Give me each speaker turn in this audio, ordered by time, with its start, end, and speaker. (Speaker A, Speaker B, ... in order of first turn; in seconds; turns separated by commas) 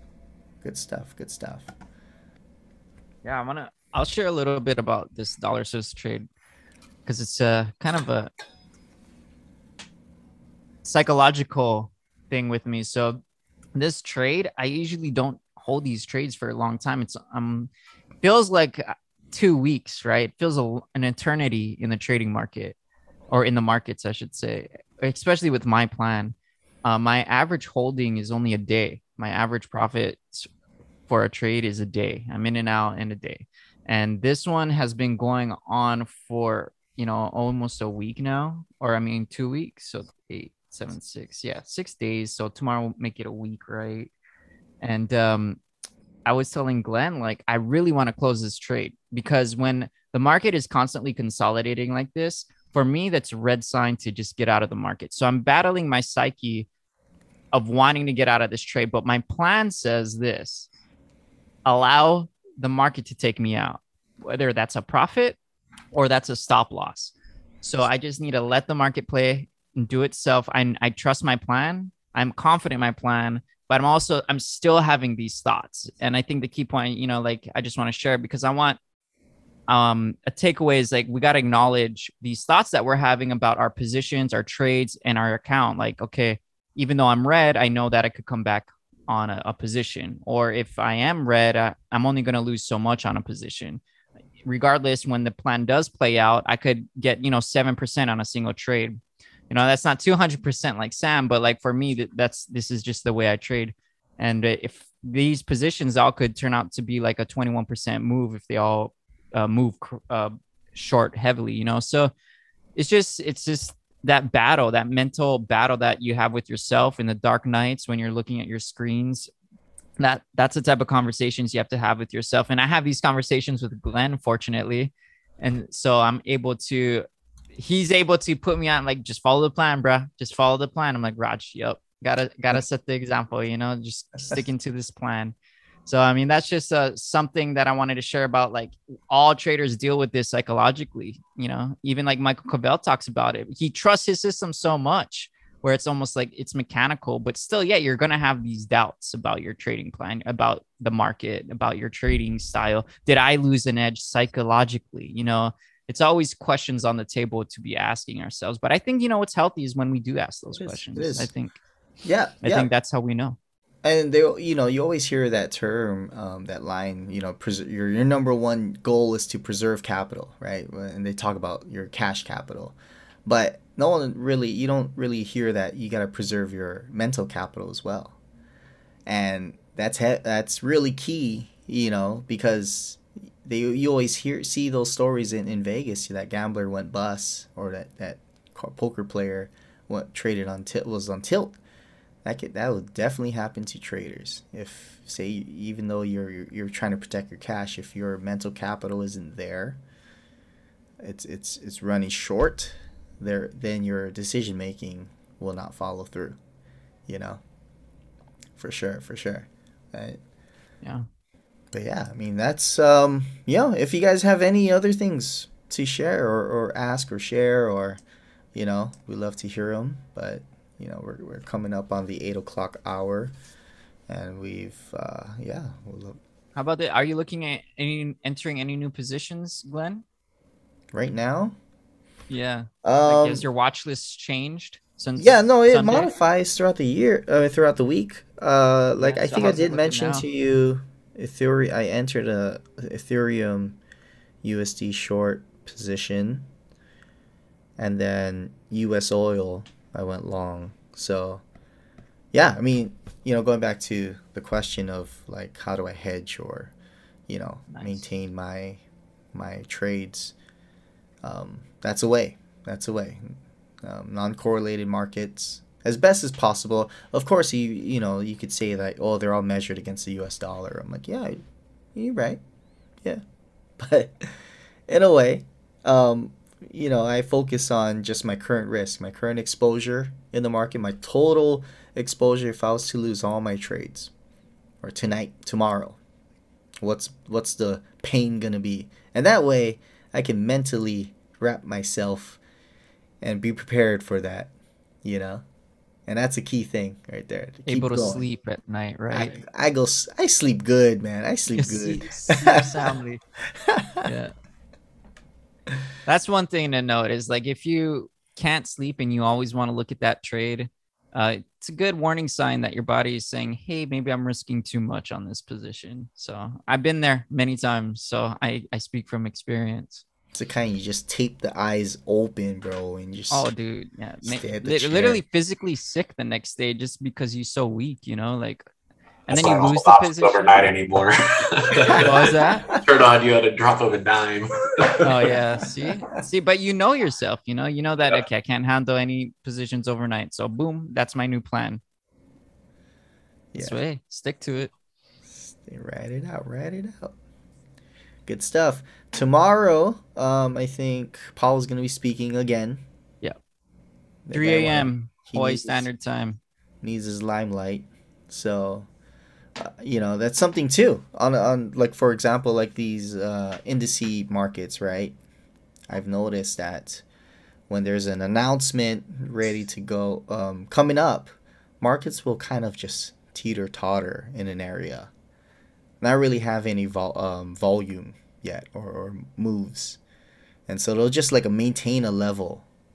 Speaker A: 0.6-1.7, Speaker B: 3.2-6.3, Speaker B: 7.0-8.3, Speaker B: 10.8-13.2, Speaker B: 13.8-17.7, Speaker B: 18.2-22.8, Speaker B: 23.3-30.5, Speaker B: 31.1-44.1, Speaker B: 44.8-45.6, Speaker B: 46.3-56.7, Speaker B: 57.5-60.7, Speaker B: 61.6-65.4, Speaker B: 65.9-78.8, Speaker B: 79.7-93.8, Speaker B: 94.4-112.1, Speaker B: 112.8-119.3, Speaker B: 120.0-135.3, Speaker B: 135.9-161.6, Speaker A: 160.5-161.3, Speaker A: 162.0-162.7, Speaker B: 162.4-163.4, Speaker A: 163.8-178.2, Speaker A: 179.1-191.6, Speaker A: 192.2-199.8, Speaker A: 201.0-206.4, Speaker A: 207.1-207.4, Speaker A: 208.6-210.2, Speaker A: 211.7-218.0, Speaker A: 218.6-223.3, Speaker A: 224.1-226.2, Speaker B: 226.6-230.1, Speaker A: 230.9-231.6, Speaker B: 232.3-236.1, Speaker A: 232.8-233.4, Speaker A: 235.2-243.8, Speaker B: 239.0-240.3, Speaker A: 244.4-246.5, Speaker A: 247.8-251.4, Speaker A: 252.3-256.7, Speaker A: 257.3-258.8, Speaker B: 257.7-258.0, Speaker A: 259.3-260.4, Speaker A: 261.2-271.4, Speaker A: 271.9-272.4, Speaker A: 273.8-274.3, Speaker A: 274.9-284.1, Speaker A: 284.8-286.0, Speaker A: 286.8-292.4, Speaker A: 293.2-294.5, Speaker A: 295.0-295.4, Speaker A: 296.1-298.2, Speaker B: 297.7-299.4, Speaker A: 299.1-302.9, Speaker B: 301.6-303.2, Speaker A: 303.6-304.1, Speaker B: 304.1-304.3, Speaker B: 306.1-320.0, Speaker A: 320.3-323.5, Speaker B: 323.3-328.7, Speaker A: 324.2-325.2, Speaker B: 329.3-330.7, Speaker C: 329.3-335.3, Speaker B: 332.0-332.7, Speaker B: 335.0-341.8, Speaker A: 343.5-343.8, Speaker B: 343.6-344.7, Speaker A: 345.3-347.1, Speaker A: 348.3-352.8, Speaker A: 354.3-355.9, Speaker B: 354.3-356.4, Speaker A: 356.8-358.9, Speaker A: 359.6-365.2, Speaker A: 365.9-367.0, Speaker A: 367.7-375.1, Speaker A: 376.0-380.0, Speaker A: 380.7-382.7